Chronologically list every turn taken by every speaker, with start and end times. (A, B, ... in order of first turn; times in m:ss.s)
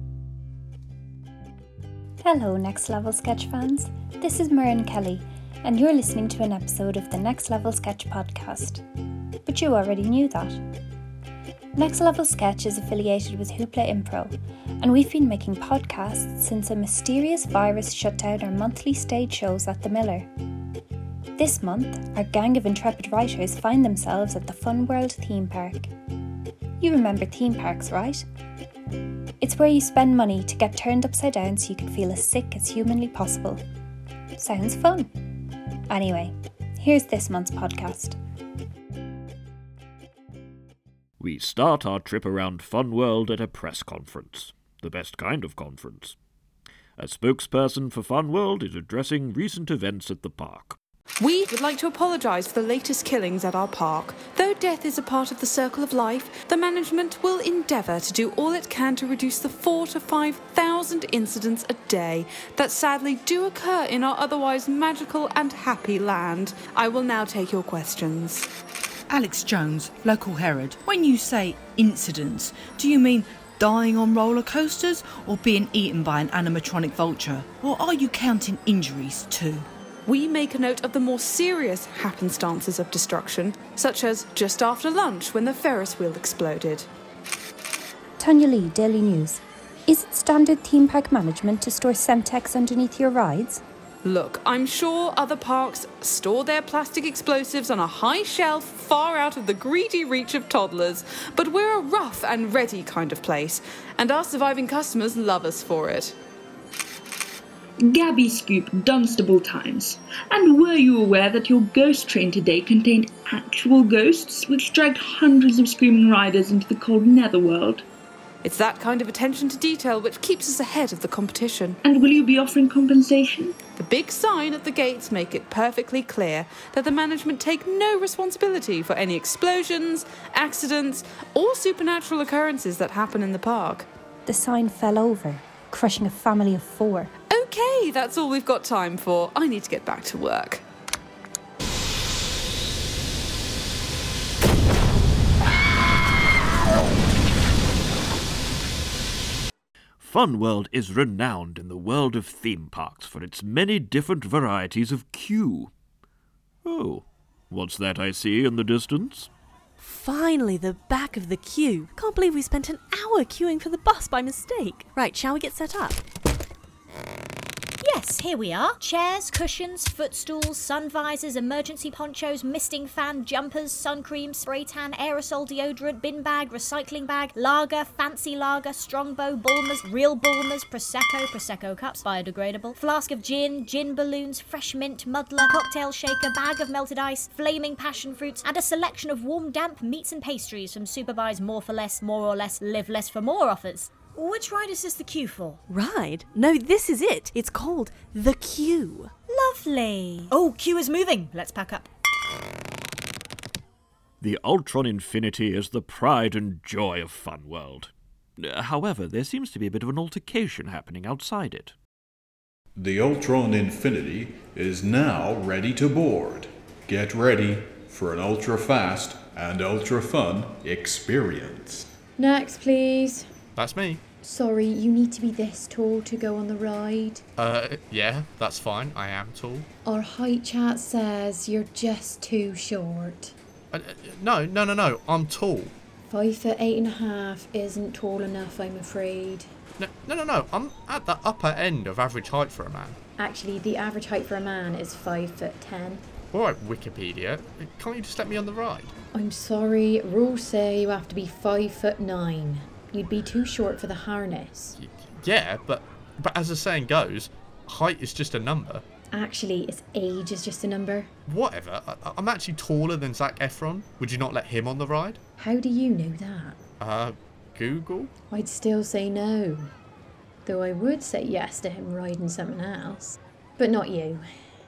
0:02.2-0:08.8 A
0:09.4-0:10.6 A
0:11.8-0:20.3 A
0:21.4-0:25.9 A
0:26.8-0:28.3 A
0:29.4-0:33.6 A
0:34.4-0:35.1 A
0:35.9-0:38.2 A
0:41.2-0:46.2 B
0:47.0-0:50.8 B
0:51.2-1:08.5 C
1:09.1-1:19.7 D
1:20.1-1:26.9 C
1:28.2-1:33.6 A
1:34.0-1:46.2 C
1:47.9-1:57.8 E
1:58.4-2:01.8 C
2:01.8-2:03.6 E
2:03.8-2:13.9 C
2:14.3-2:17.1 A
2:17.3-2:20.6 C
2:30.0-2:35.7 B
2:36.6-2:39.3 B
2:39.8-2:46.0 F
2:47.8-3:15.6 G
3:15.7-3:19.1 F
3:19.3-3:21.9 G
3:24.2-3:31.8 B
3:32.8-3:41.9 H
3:42.2-3:43.3 I
3:43.6-3:44.0 J
3:44.2-3:47.2 I
3:47.4-3:49.7 J
3:49.8-3:53.3 I
3:53.7-3:55.7 J
3:56.1-3:59.5 I
3:59.8-4:03.0 J
4:03.2-4:06.0 I
4:06.3-4:08.9 J
4:09.1-4:14.8 I
4:14.8-4:18.8 J
4:19.1-4:21.1 I
4:21.3-4:25.2 J
4:25.4-4:26.6 I
4:26.8-4:28.1 J
4:28.3-4:29.7 I
4:30.4-4:34.2 I